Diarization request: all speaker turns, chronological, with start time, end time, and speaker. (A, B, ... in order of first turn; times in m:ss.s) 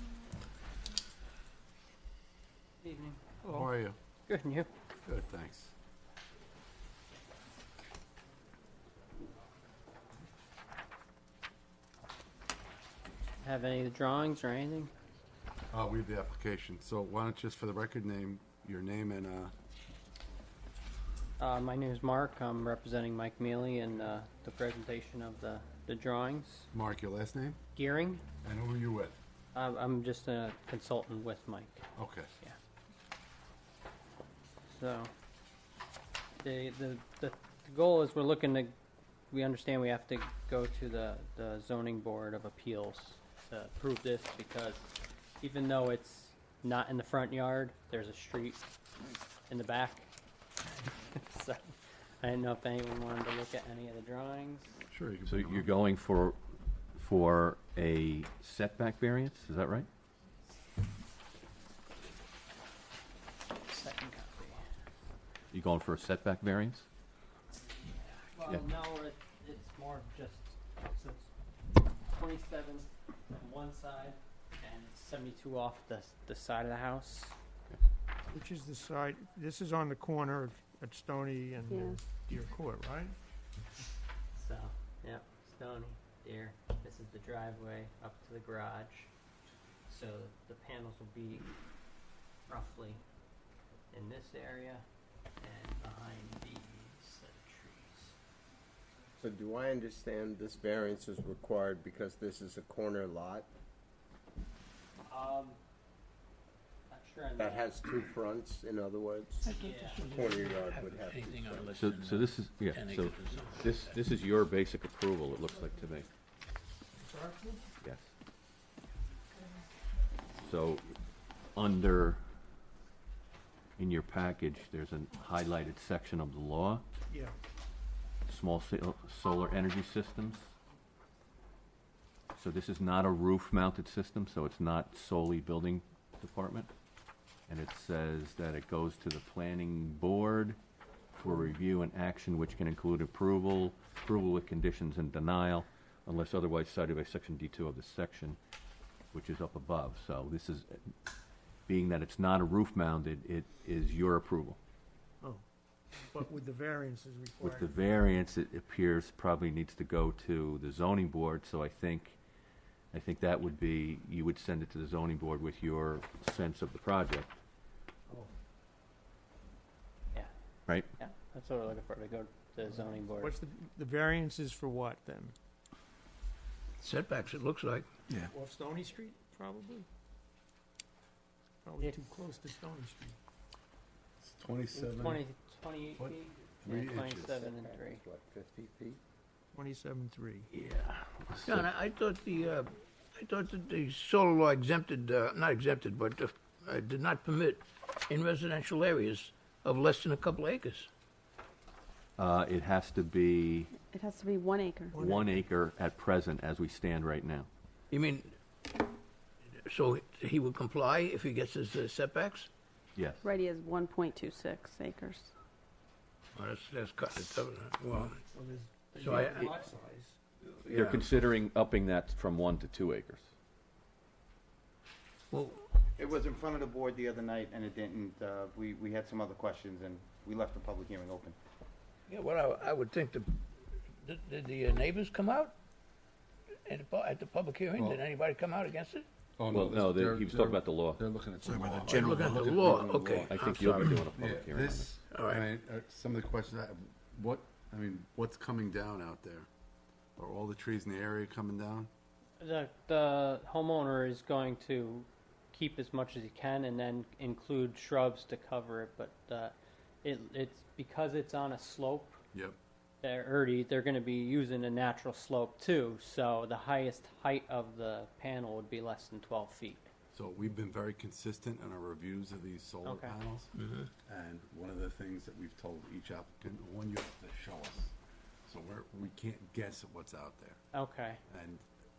0:02.8-0:03.3 A
0:03.5-0:04.0 B
0:04.3-0:04.7 A
0:05.0-0:05.7 B
0:13.4-0:14.9 A
0:15.7-0:19.5 B
0:21.4-0:26.7 A
0:26.7-0:27.6 B
0:27.8-0:28.2 A
0:28.4-0:29.2 B
0:29.5-0:31.8 A
0:32.0-0:32.3 B
0:34.7-0:35.1 A
0:36.4-0:38.7 A
0:39.3-0:48.6 A
0:49.5-0:50.1 A
0:50.8-0:54.8 A
0:54.9-0:55.7 B
0:55.3-0:56.4 C
0:57.0-0:59.9 C
1:03.7-1:04.6 A
1:05.5-1:06.9 C
1:07.9-1:11.3 A
1:12.0-1:17.4 A
1:18.3-1:23.2 D
1:21.7-1:22.0 E
1:24.3-1:29.1 A
1:29.9-1:31.5 A
1:32.5-1:33.0 A
1:33.9-1:34.8 A
1:35.4-1:38.2 A
1:39.2-1:43.5 F
1:45.1-1:45.6 A
1:46.9-1:47.7 A
1:47.4-1:51.8 F
1:49.4-1:53.6 G
1:49.6-1:50.0 A
1:51.8-1:56.1 C
1:57.0-1:57.7 D
1:57.8-1:58.1 C
2:00.4-2:00.9 C
2:01.6-2:02.2 C
2:03.8-2:06.8 C
2:07.1-2:07.4 D
2:08.3-2:10.5 C
2:12.4-2:16.7 C
2:17.5-2:20.6 C
2:21.2-2:28.4 C
2:29.1-2:30.8 C
2:31.7-2:34.6 C
2:36.0-2:37.7 D
2:37.4-2:42.2 C
2:42.9-2:47.4 C
2:51.0-2:53.4 A
2:53.0-2:55.4 D
2:56.8-2:57.9 G
2:58.2-2:59.9 D
3:01.6-3:03.2 D
3:04.2-3:05.2 B
3:04.7-3:08.0 A
3:06.0-3:07.5 B
3:07.6-3:09.0 F
3:09.5-3:10.5 D
3:11.5-3:20.9 G
3:22.2-3:23.7 C
3:23.7-3:25.0 E
3:24.9-3:25.4 D
3:25.0-3:27.5 C
3:27.9-3:28.4 G
3:29.6-3:32.5 G
3:33.0-3:33.3 C
3:33.2-3:35.3 E
3:36.4-3:38.2 G
3:38.3-3:40.2 D
3:39.0-3:39.5 G
3:40.5-3:41.1 G
3:40.7-3:43.3 C
3:45.3-3:45.6 G
3:46.0-3:51.4 H
3:52.1-3:53.4 G
3:54.0-3:55.6 G
3:56.6-3:59.1 G
3:57.8-3:58.0 B
3:59.4-4:09.5 B
3:59.5-4:01.0 C
4:01.6-4:04.0 G
4:03.3-4:05.0 C
4:05.1-4:05.4 G
4:10.2-4:11.9 B
4:12.4-4:22.2 A
4:23.0-4:29.9 A
4:30.1-4:33.5 B
4:32.8-4:33.2 A
4:34.0-4:38.0 B
4:38.5-4:40.6 B
4:40.7-4:41.2 A
4:41.3-4:41.6 B